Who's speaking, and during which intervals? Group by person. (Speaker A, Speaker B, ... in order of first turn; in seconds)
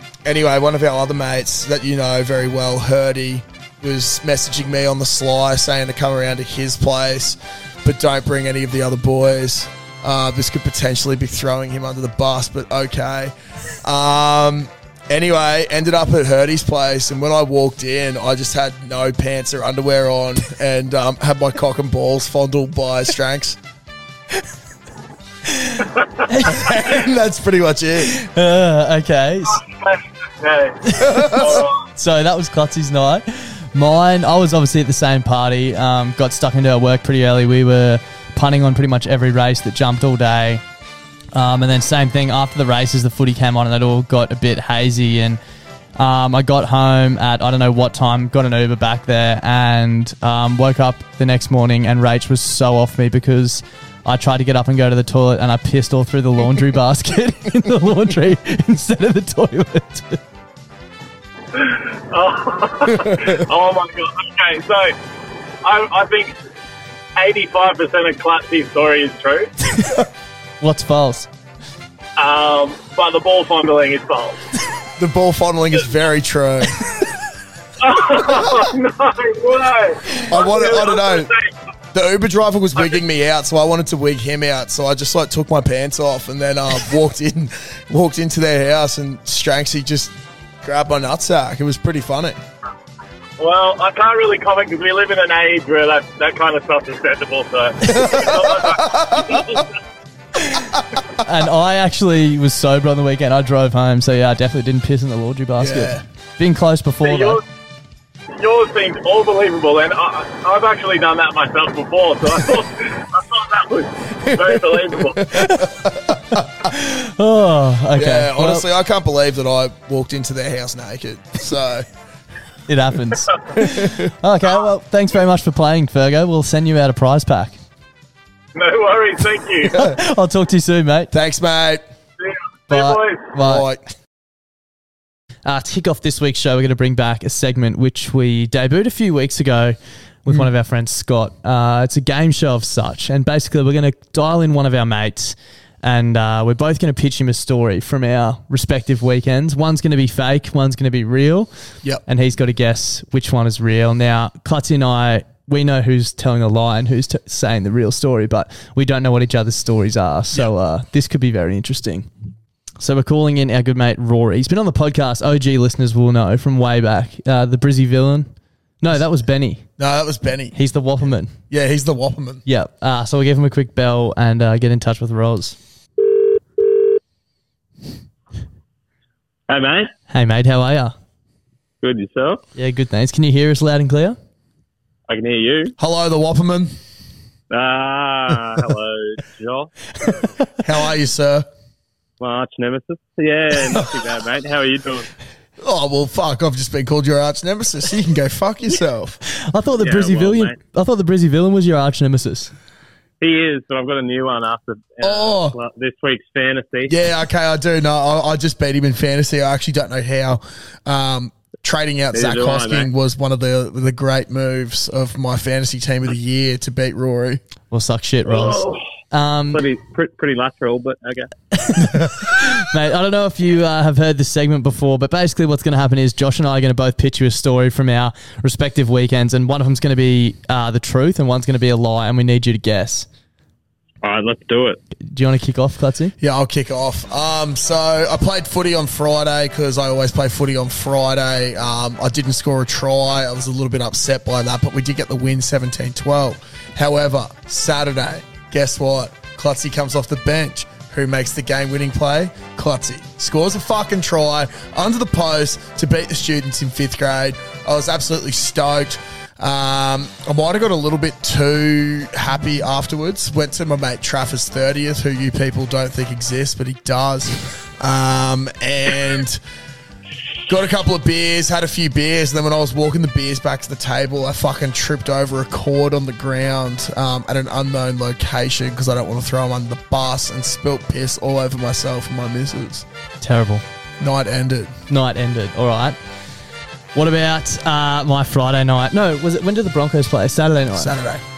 Speaker A: 0.2-13.3, 13.8-23.6, 26.4-28.1, 31.0-31.6, 75.0-77.0, 78.1-78.7, 80.2-81.3, 81.9-92.4, 97.8-99.6, 105.6-106.0, 114.3-116.5, 118.0-121.9, 123.6-124.1, 129.6-130.0, 131.1-131.8, 133.4-133.8, 169.8-172.4, 185.8-186.8, 190.6-191.5, 195.6-199.2, 205.0-205.6, 206.9-217.4, 236.2-269.4, 270.5-282.9, 284.0-284.7, 290.8-291.2
Speaker B: 25.5-27.0, 28.1-29.6, 30.9-31.4, 32.0-40.6, 41.3-45.4, 46.0-60.2, 70.6-71.3, 101.2-107.4, 116.6-118.7, 122.7-127.6, 129.8-131.1, 132.7-133.7, 135.4-151.5, 152.1-162.1, 162.8-169.7, 170.5-171.3, 172.5-175.6, 180.1-180.9, 182.6-184.2, 199.3-202.5, 217.7-219.6, 221.5-233.1, 235.0-236.1, 283.2-283.6, 284.9-286.0, 286.9-290.9
Speaker C: 29.6-31.8, 61.5-65.0, 65.6-66.3, 67.2-69.5, 72.2-74.5, 77.8-81.5, 93.4-99.7, 107.0-107.4, 108.4-115.3, 128.6-129.8, 132.2-133.3, 179.5-179.9, 181.8-182.4, 185.1-185.7, 187.5-190.2, 192.2-195.1, 199.8-200.6, 203.2-206.9, 212.1-212.9, 218.3-218.8, 219.5-221.3, 234.0-234.8